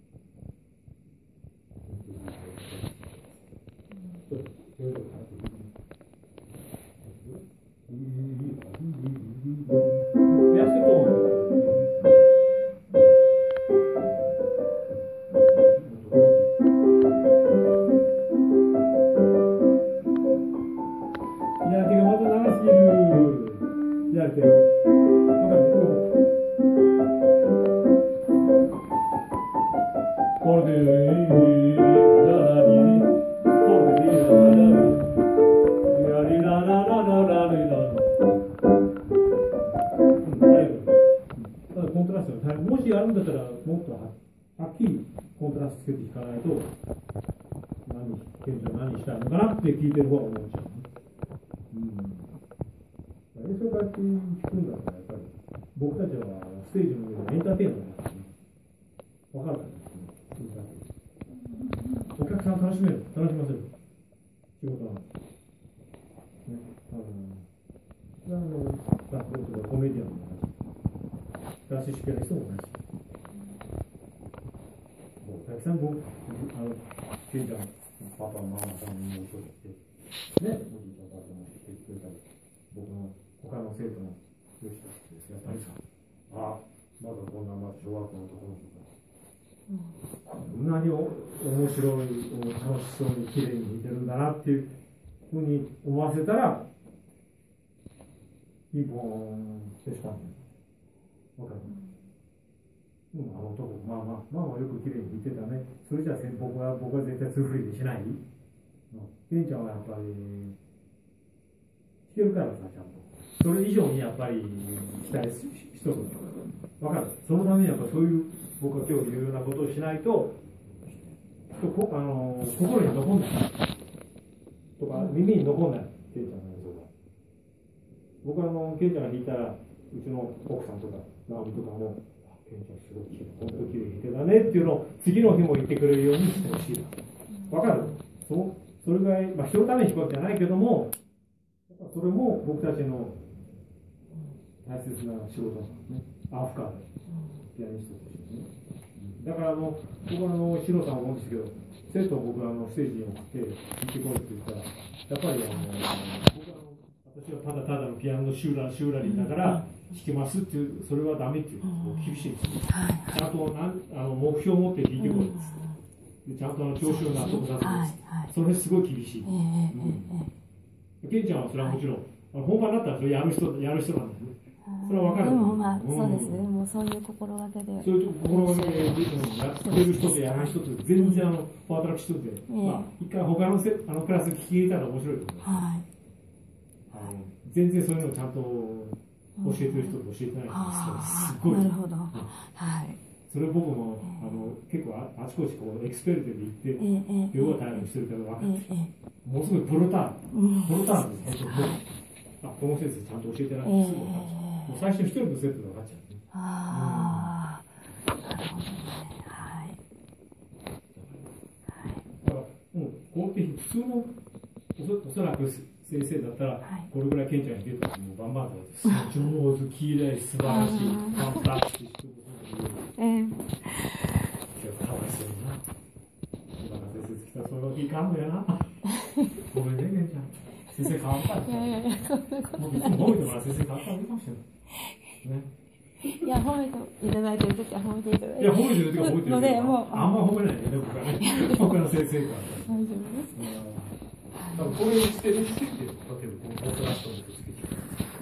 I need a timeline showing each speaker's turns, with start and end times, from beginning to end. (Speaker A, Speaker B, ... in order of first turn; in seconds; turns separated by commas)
Speaker A: 1.8-3.4, Speaker A: 4.2-5.7, Speaker A: 7.0-12.1, Speaker A: 15.5-16.5, Speaker A: 21.6-24.6, Speaker A: 25.4-26.1, Speaker A: 30.4-35.2, Speaker A: 35.9-38.1, Speaker A: 40.2-46.7, Speaker A: 47.9-50.9, Speaker A: 51.7-52.3, Speaker A: 53.3-58.3, Speaker A: 59.3-60.9, Speaker A: 62.0-63.7, Speaker A: 64.6-65.0, Speaker A: 66.5-67.5, Speaker A: 68.2-70.5, Speaker A: 71.7-72.8, Speaker A: 75.2-79.8, Speaker A: 80.4-88.9, Speaker B: 89.7-90.0, Speaker A: 90.3-94.7, Speaker A: 95.3-96.7, Speaker A: 98.7-100.4, Speaker A: 101.4-101.8, Speaker A: 103.1-108.2, Speaker A: 108.9-110.6, Speaker A: 112.1-120.4, Speaker A: 121.5-123.6, Speaker A: 124.8-126.9, Speaker A: 128.2-136.9, Speaker B: 137.4-137.9, Speaker A: 137.5-140.9, Speaker A: 141.7-143.2, Speaker A: 144.6-146.9, Speaker B: 147.1-147.4, Speaker A: 147.5-165.6, Speaker B: 159.0-159.8, Speaker B: 161.6-163.3, Speaker B: 165.0-165.8, Speaker A: 166.2-170.1, Speaker B: 166.8-168.3, Speaker B: 169.2-170.3, Speaker A: 171.0-176.4, Speaker B: 174.7-181.3, Speaker A: 177.8-185.7, Speaker B: 182.5-182.9, Speaker B: 185.4-185.9, Speaker A: 186.9-192.3, Speaker B: 189.4-189.9, Speaker B: 190.5-193.0, Speaker A: 193.3-198.7, Speaker B: 196.8-197.8, Speaker B: 198.4-198.9, Speaker A: 199.2-201.8, Speaker B: 200.3-201.8, Speaker A: 202.4-207.4, Speaker B: 203.6-204.8, Speaker B: 206.3-207.7, Speaker B: 208.2-209.8, Speaker A: 211.0-211.3, Speaker B: 211.8-212.0, Speaker A: 212.2-214.1, Speaker A: 214.8-223.0, Speaker B: 220.4-221.5, Speaker B: 223.0-224.1, Speaker A: 224.5-225.6, Speaker A: 226.6-228.7, Speaker A: 229.4-231.9, Speaker B: 231.4-233.2, Speaker A: 232.5-234.4, Speaker A: 235.2-235.5, Speaker B: 236.0-240.3, Speaker A: 238.4-244.0, Speaker B: 241.2-241.8, Speaker B: 242.7-243.5, Speaker B: 244.4-244.8, Speaker A: 244.5-247.9